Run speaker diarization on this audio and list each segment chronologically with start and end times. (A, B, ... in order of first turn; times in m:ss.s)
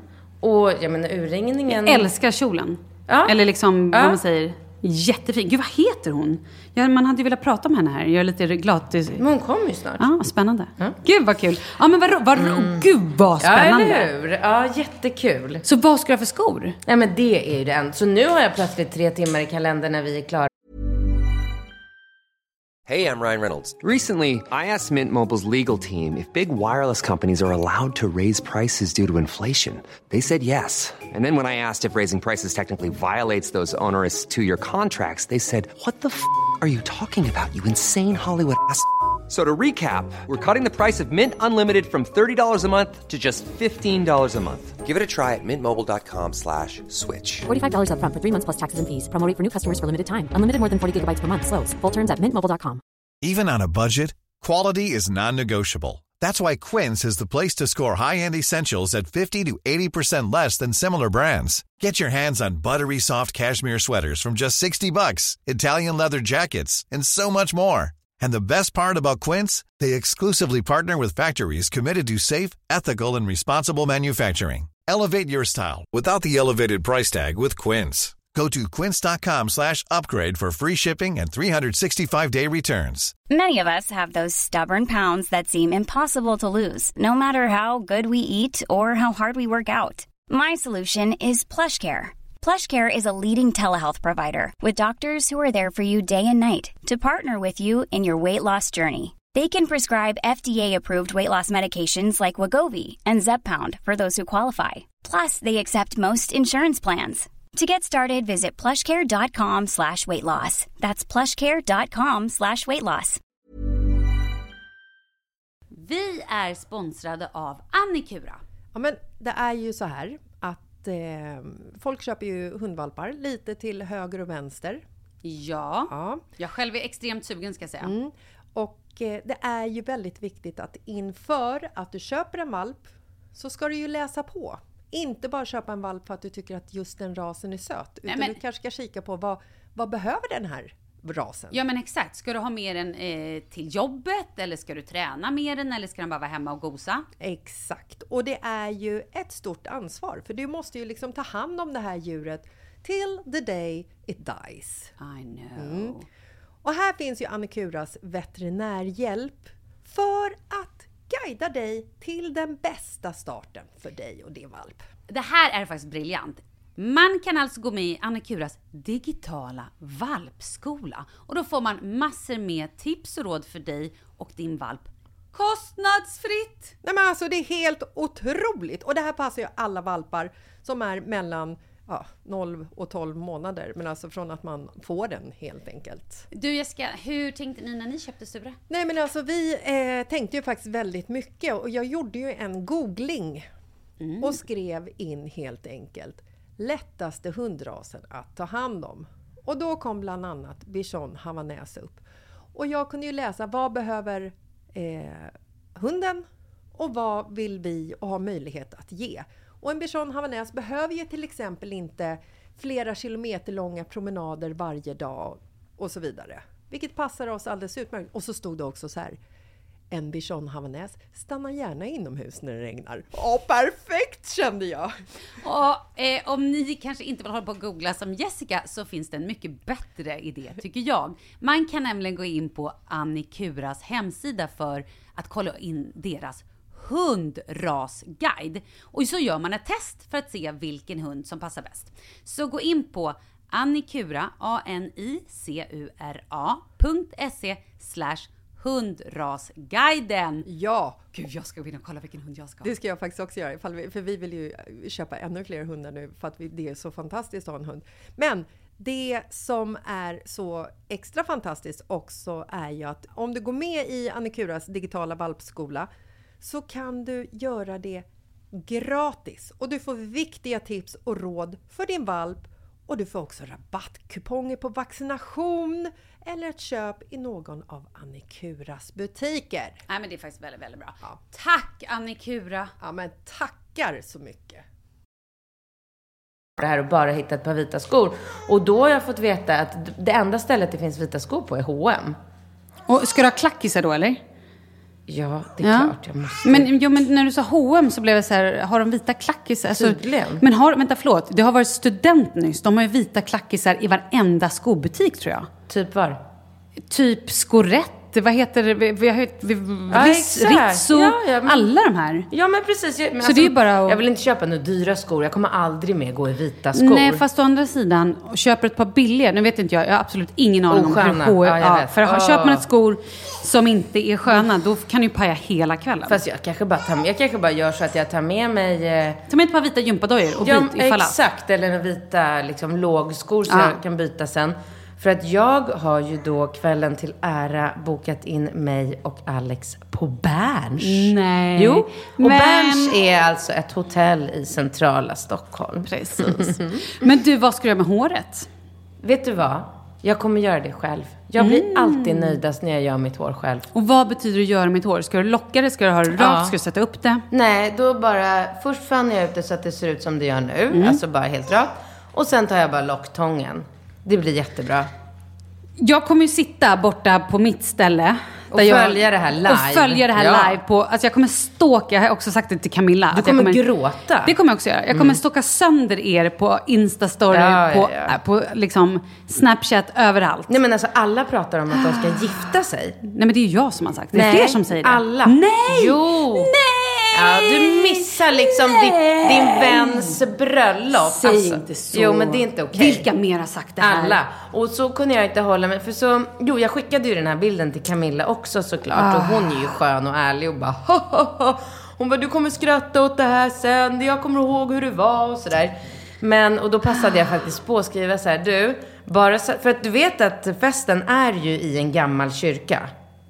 0:00.4-0:02.1 A
0:01.7-0:09.2 B
0:03.1-0:03.4 A
0:03.9-0:04.2 A
0:09.2-0:10.1 A
0:10.0-0:14.1 B
0:12.4-0:12.8 A
0:13.4-0:15.6 A
0:15.6-0:16.8 B
0:16.8-0:20.5 A
0:22.9-0:47.5 C
0:47.5-0:52.8 D
0:53.2-1:23.1 E
1:23.3-1:53.2 F
1:55.7-1:58.4 B
1:58.7-2:04.8 G
2:05.2-2:07.9 B
2:05.9-2:06.2 G
2:07.8-2:21.6 G
2:18.0-2:18.4 B
2:21.5-2:27.0 B
2:27.2-2:34.9 G
2:35.0-2:36.0 B
2:35.6-2:36.0 G
2:36.6-2:44.8 G
2:45.1-2:56.7 B
2:56.8-3:06.2 G
3:06.3-3:08.6 B
3:08.7-3:13.5 G
3:14.0-3:14.4 B
3:14.2-3:22.0 G
3:22.5-3:26.2 G
3:26.8-3:39.2 G
3:39.9-3:44.9 G
3:45.4-4:10.4 B
4:10.4-4:11.0 G
4:11.1-4:12.7 B
4:12.6-4:25.9 G
4:26.4-4:39.8 G
4:39.9-4:42.7 B
4:42.8-4:44.6 G
4:46.6-4:52.2 A
4:52.9-4:54.2 B
4:55.1-4:56.7 A
4:55.6-4:55.9 B
4:56.4-5:05.5 B
4:59.7-5:00.4 A
5:05.7-5:06.2 A
5:06.9-5:12.3 B
5:09.9-5:11.7 A
5:12.3-5:17.2 A
5:13.2-5:14.0 B
5:16.7-5:26.2 B
5:20.7-5:22.6 A
5:26.1-5:29.2 A
5:29.3-5:31.2 B
5:30.4-5:46.8 A
5:33.5-5:33.8 B
5:40.8-5:42.9 B
5:45.9-5:48.5 B
5:49.0-5:53.7 A
5:51.4-5:52.4 B
5:53.7-5:57.2 B
5:56.1-5:56.5 A
5:57.3-6:04.9 A
6:00.7-6:01.0 B
6:05.8-6:13.6 B
6:08.5-6:10.6 A
6:13.1-6:14.3 A
6:14.2-6:20.6 B
6:14.9-6:15.2 A
6:17.3-6:18.2 A
6:20.5-6:23.0 A
6:21.7-6:30.2 B
6:24.1-6:26.5 A
6:27.1-6:33.1 A
6:30.9-6:34.2 B
6:33.8-6:52.9 A
6:38.9-6:39.6 B